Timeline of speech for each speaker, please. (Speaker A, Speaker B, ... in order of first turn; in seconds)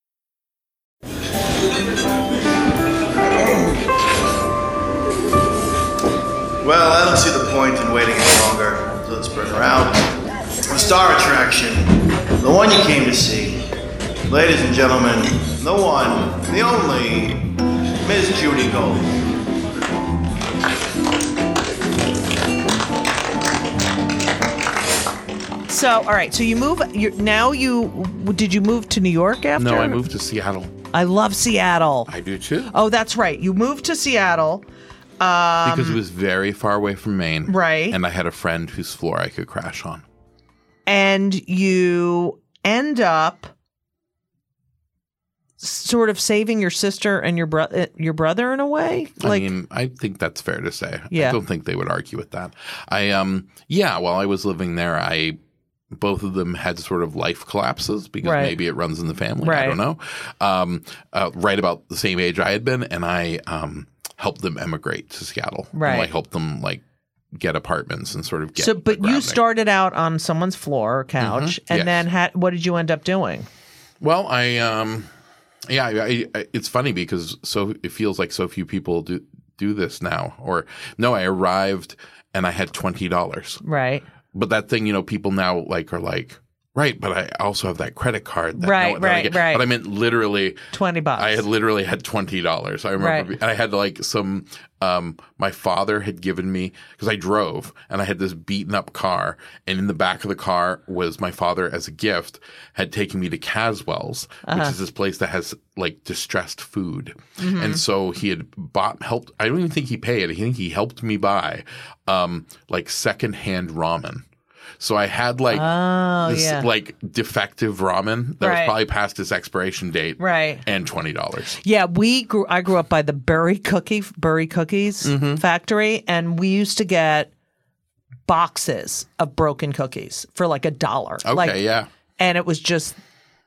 Speaker A: 3.2-3.9, 6.6-10.1, 10.7-13.7, 14.3-17.4, 18.0-19.1
Speaker B: 25.7-30.1, 30.9-32.1, 32.7-34.6, 35.2-36.0, 37.5-38.0, 40.9-43.5, 45.6-49.5, 51.1-51.4, 58.2-58.6, 59.4-59.8, 65.7-66.1, 68.6-73.5, 83.6-84.0, 88.6-89.7, 90.7-91.5, 93.0-93.3, 104.5-104.7, 107.4-107.8, 115.5-116.7, 118.4-118.7, 120.2-120.6, 121.6-127.3, 128.3-131.6, 132.2-133.0
Speaker C: 29.6-30.7, 32.1-32.7, 35.6-40.0, 49.2-55.4, 55.9-66.8, 67.3-69.4, 71.2-72.0, 74.0-75.1, 75.7-83.6, 84.3-90.6, 91.2-114.2, 114.8-115.7, 116.2-121.6, 125.0-125.4, 131.2-131.9